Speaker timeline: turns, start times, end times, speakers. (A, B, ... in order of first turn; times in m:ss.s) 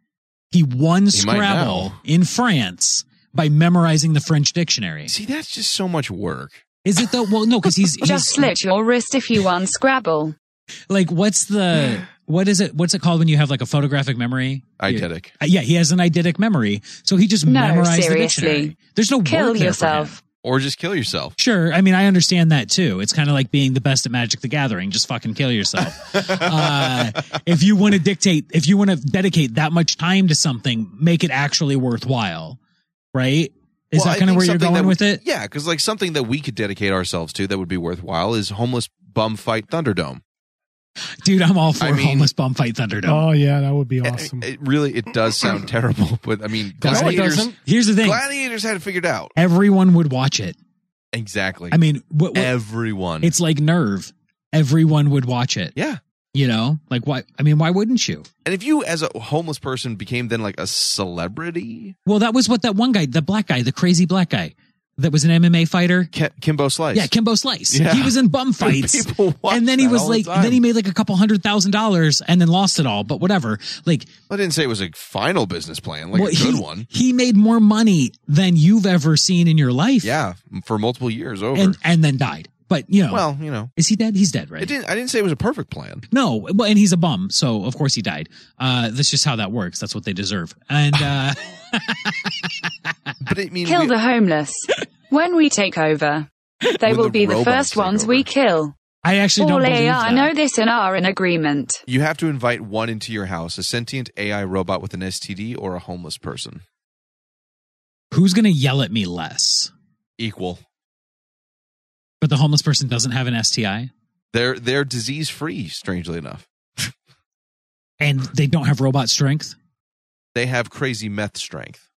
0:00.5-0:05.1 A
0:01.1-0:02.0 B
0:05.1-0:06.6 B
0:06.8-0:08.5 A
0:08.0-0:10.3 C
0:10.9-0:20.2 A
0:14.8-0:15.3 B
0:17.4-0:20.2 C
0:20.4-0:21.4 B
0:21.4-0:32.6 A
0:26.1-0:27.0 B
0:33.1-0:35.2 A
0:33.9-0:40.2 B
0:41.2-0:43.3 A
0:41.8-0:42.3 B
0:43.0-0:44.4 D
0:44.0-0:49.3 B
0:46.8-0:48.2 A
0:46.8-0:47.5 D
0:49.4-0:50.6 A
0:51.1-0:51.8 B
0:51.7-0:52.5 A
0:52.3-0:53.3 B
0:53.2-0:55.8 A
0:56.3-0:58.3 A
0:58.4-1:02.0 B
1:02.0-1:06.1 A
1:06.1-1:07.1 B
1:06.9-1:14.1 A
1:07.7-1:10.6 B
1:14.3-1:16.9 B
1:16.1-1:20.1 A
1:20.0-1:21.8 B
1:21.5-1:23.2 A
1:23.1-1:23.7 B
1:23.8-1:24.7 A
1:24.6-1:26.0 B
1:26.1-1:32.5 A
1:33.2-1:33.9 B
1:33.6-1:36.3 C
1:36.8-1:38.7 C
1:36.8-1:38.3 B
1:39.0-1:40.3 A
1:39.4-1:41.8 C
1:41.9-1:46.6 B
1:48.1-1:49.7 A
1:50.2-1:50.6 B
1:52.2-1:53.9 A
1:54.3-1:56.9 B
1:58.0-1:59.5 A
2:00.3-2:01.8 B